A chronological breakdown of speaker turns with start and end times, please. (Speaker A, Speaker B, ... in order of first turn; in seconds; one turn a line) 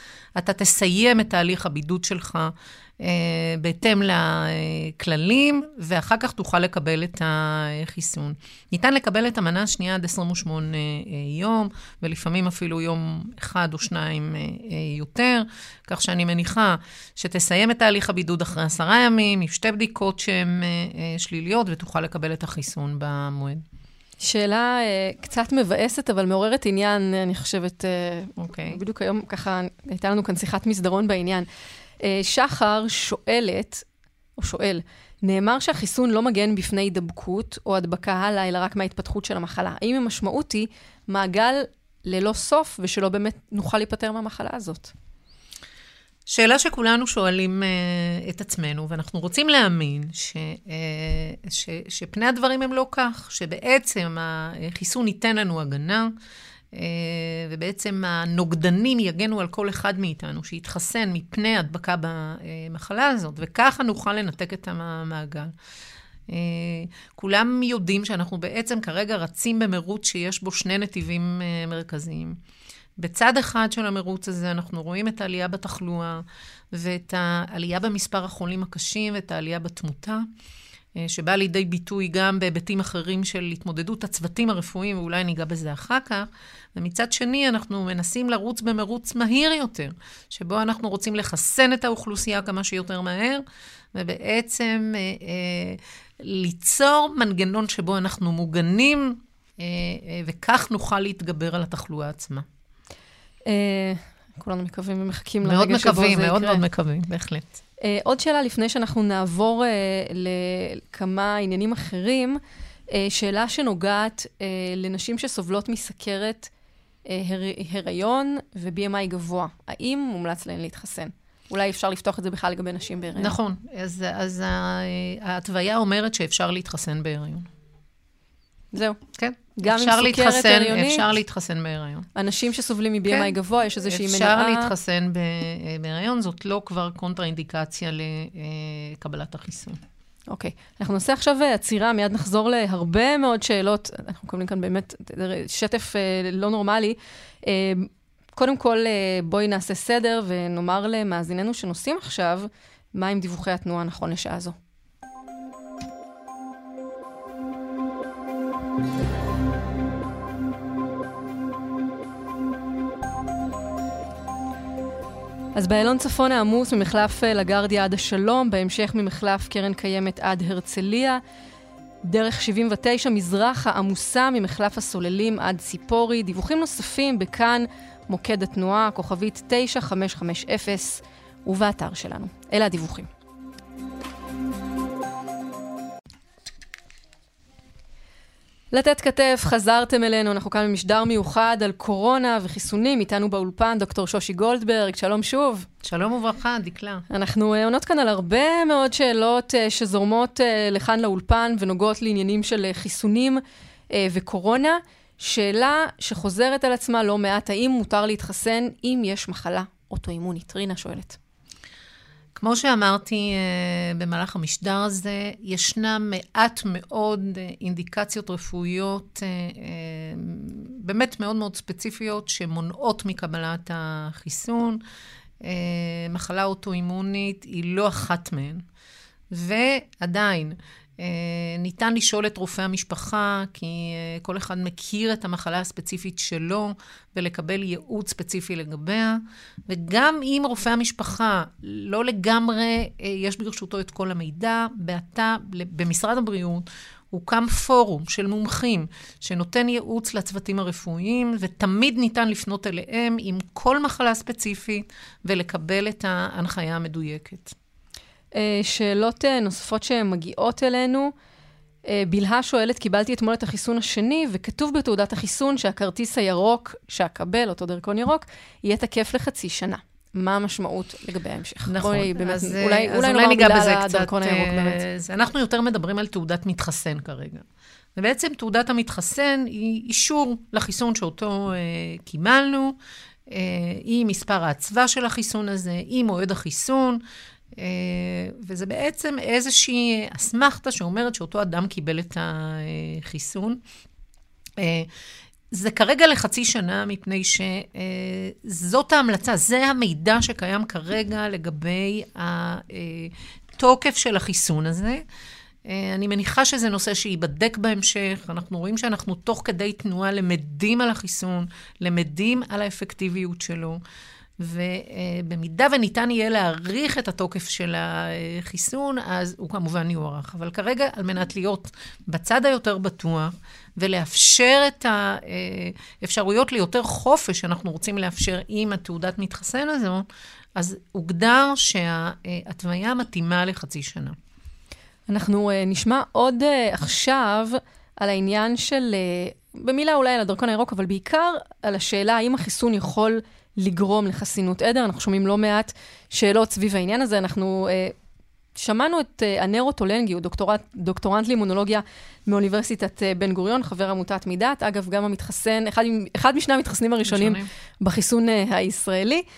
Speaker A: 0.4-23.6
Speaker B: 24.2-31.5
Speaker A: 28.4-28.8
Speaker B: 32.0-33.9
Speaker B: 34.4-44.9
Speaker A: 46.3-56.1
Speaker A: 56.7-65.5
Speaker A: 66.3-72.4
Speaker A: 73.0-80.3
Speaker A: 81.0-102.5
Speaker B: 103.5-106.6
Speaker A: 105.4-107.5
Speaker B: 107.8-112.4
Speaker B: 112.9-116.5
Speaker B: 117.1-123.4
Speaker A: 123.2-127.5
Speaker B: 128.7-129.0
Speaker A: 129.2-132.1
Speaker B: 129.6-131.1
Speaker B: 132.2-134.7
Speaker A: 133.1-133.3
Speaker A: 133.8-139.8
Speaker B: 140.3-154.6
Speaker B: 165.6-171.2
Speaker B: 172.1-183.1
Speaker B: 188.7-195.7
Speaker A: 195.8-197.1
Speaker B: 197.1-203.4
Speaker B: 203.9-211.2
Speaker A: 212.4-224.8
Speaker A: 225.4-228.6
Speaker A: 229.3-257.6
Speaker B: 258.3-261.1
Speaker B: 261.9-274.8
Speaker A: 271.7-277.4
Speaker A: 278.0-282.8
Speaker A: 283.3-287.0
Speaker A: 287.6-293.6
Speaker A: 294.6-294.9
Speaker A: 295.5-305.0
Speaker A: 305.7-313.8
Speaker A: 314.4-334.2
Speaker B: 335.1-347.9
Speaker B: 348.6-359.2
Speaker A: 357.1-357.5